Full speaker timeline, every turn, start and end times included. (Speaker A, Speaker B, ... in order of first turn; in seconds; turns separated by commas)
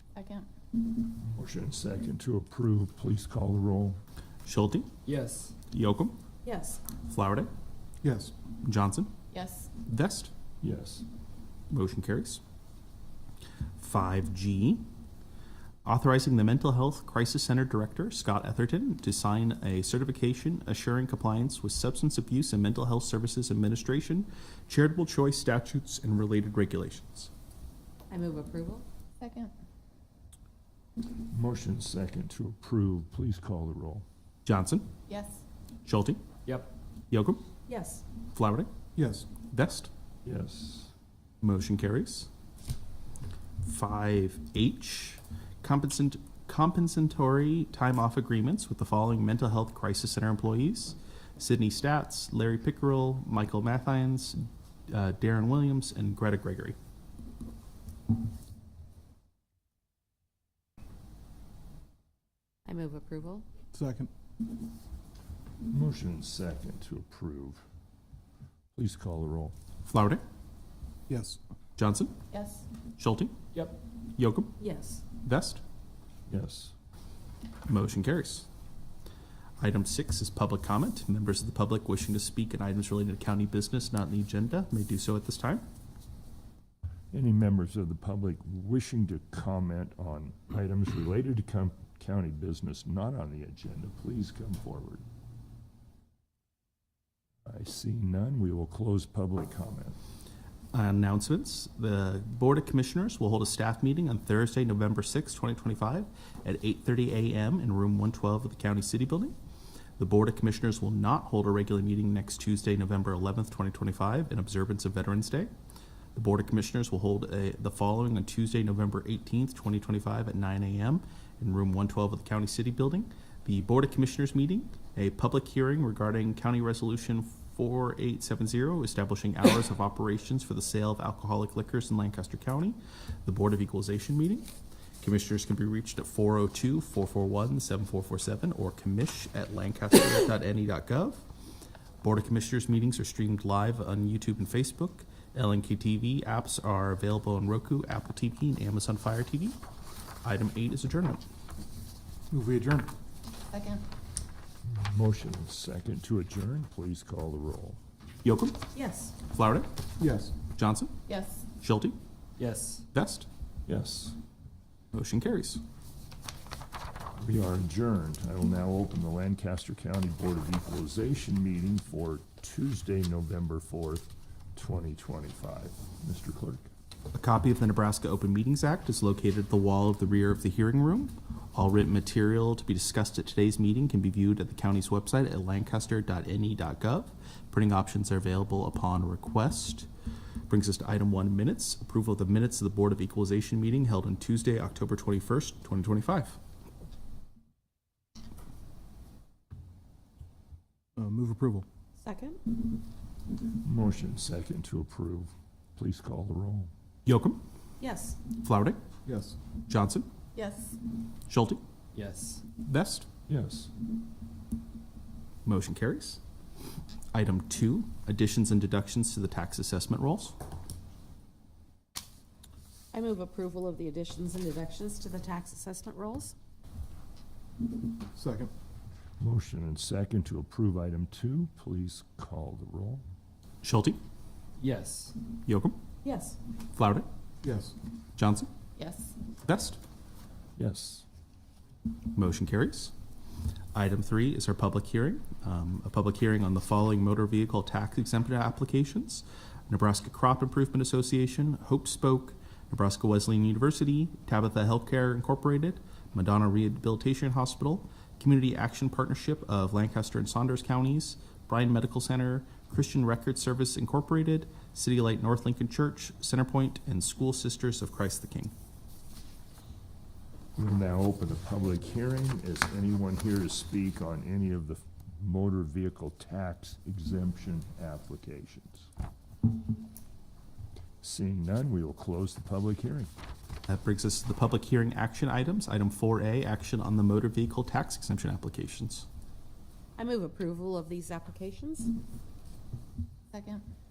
Speaker A: 0.1-0.5, Speaker B: 1.3-4.0, Speaker C: 4.5-4.9, Speaker D: 5.1-5.5, Speaker C: 5.7-6.2, Speaker E: 6.5-6.8, Speaker C: 7.0-7.5, Speaker C: 8.6-9.1, Speaker A: 9.3-9.7, Speaker C: 9.8-10.3, Speaker B: 10.6-11.1, Speaker C: 11.7-12.4, Speaker C: 13.8-14.8, Speaker C: 15.8-27.3, Speaker E: 28.1-28.9, Speaker A: 29.2-29.5, Speaker B: 31.2-34.0, Speaker C: 34.5-34.9, Speaker A: 35.1-35.4, Speaker C: 35.9-36.2, Speaker C: 37.1-37.4, Speaker E: 37.7-38.0, Speaker C: 38.3-38.7, Speaker C: 39.4-39.9, Speaker B: 40.2-40.9, Speaker C: 41.4-42.3, Speaker C: 43.6-56.8, Speaker E: 62.7-63.5, Speaker F: 63.8-64.0, Speaker B: 65.7-67.6, Speaker B: 68.7-69.5, Speaker C: 69.9-70.2, Speaker F: 71.1-71.4, Speaker C: 71.8-72.1, Speaker A: 72.3-72.7, Speaker C: 73.0-73.3, Speaker C: 74.2-74.5, Speaker E: 74.6-75.0, Speaker C: 75.2-75.6, Speaker B: 76.3-76.8, Speaker C: 77.7-78.5, Speaker C: 79.6-85.6, Speaker B: 87.1-95.0, Speaker B: 97.5-100.0, Speaker C: 100.7-109.3, Speaker C: 110.0-115.5, Speaker C: 116.2-134.5, Speaker C: 135.0-141.2, Speaker C: 142.0-149.6, Speaker C: 150.2-151.2, Speaker F: 152.3-152.8, Speaker A: 153.5-153.8, Speaker B: 154.7-157.8, Speaker C: 158.2-158.6, Speaker E: 158.7-159.2, Speaker C: 159.3-159.7, Speaker C: 160.5-160.9, Speaker A: 161.1-161.5, Speaker C: 161.6-162.0, Speaker D: 162.4-162.8, Speaker C: 162.9-163.3, Speaker B: 163.7-164.2, Speaker C: 164.9-165.6, Speaker B: 167.2-176.7, Speaker C: 177.1-189.9, Speaker C: 190.5-196.4, Speaker F: 201.0-201.6, Speaker E: 202.0-202.4, Speaker B: 203.6-206.7, Speaker C: 207.1-207.4, Speaker E: 207.8-208.2, Speaker C: 208.4-208.8, Speaker F: 209.1-209.3, Speaker C: 209.7-210.1, Speaker A: 210.3-210.8, Speaker C: 211.3-211.6, Speaker D: 211.9-212.4, Speaker C: 212.6-213.1, Speaker B: 213.3-213.7, Speaker C: 215.4-216.2, Speaker C: 217.1-220.4, Speaker E: 222.9-226.3, Speaker F: 228.2-228.5, Speaker B: 229.2-233.0, Speaker C: 233.6-234.0, Speaker D: 234.6-235.1, Speaker C: 235.4-235.8, Speaker E: 236.0-236.4, Speaker C: 236.8-237.1, Speaker C: 238.2-238.5, Speaker A: 238.8-239.2, Speaker C: 239.4-239.8, Speaker B: 240.6-241.1, Speaker C: 242.1-242.9, Speaker C: 243.7-268.5, Speaker B: 270.6-278.9, Speaker B: 281.0-283.1, Speaker C: 283.7-289.1, Speaker E: 290.0-291.9, Speaker A: 293.3-293.6